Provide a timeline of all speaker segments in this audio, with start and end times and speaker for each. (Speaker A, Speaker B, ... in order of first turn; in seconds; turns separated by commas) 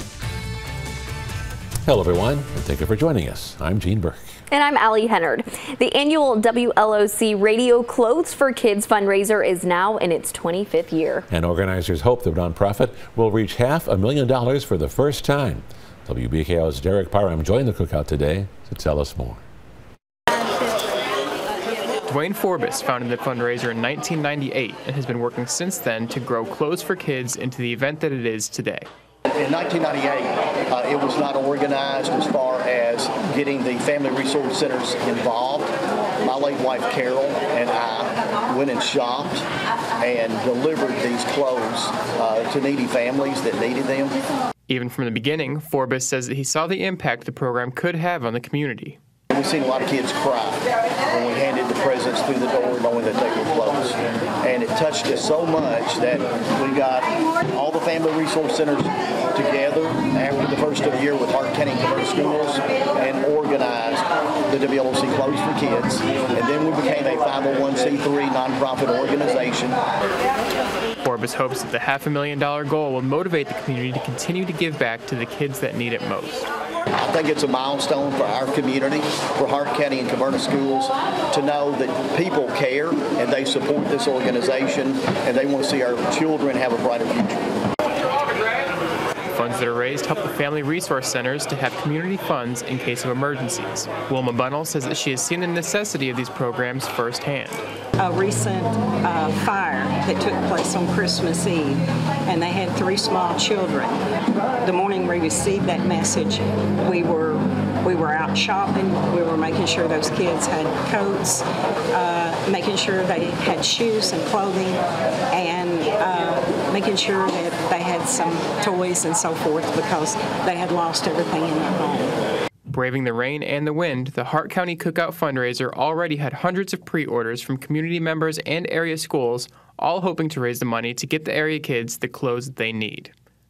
Speaker A: 1.8-4.3, Speaker B: 4.5-11.3, Speaker A: 11.3-19.4, Speaker C: 22.1-28.9, Speaker D: 29.3-39.4, Speaker D: 40.0-44.2, Speaker C: 44.7-49.0, Speaker D: 49.3-69.8, Speaker C: 71.0-76.5, Speaker D: 77.0-87.4, Speaker C: 89.3-97.6, Speaker E: 98.0-104.0, Speaker E: 104.6-122.2, Speaker C: 122.7-133.1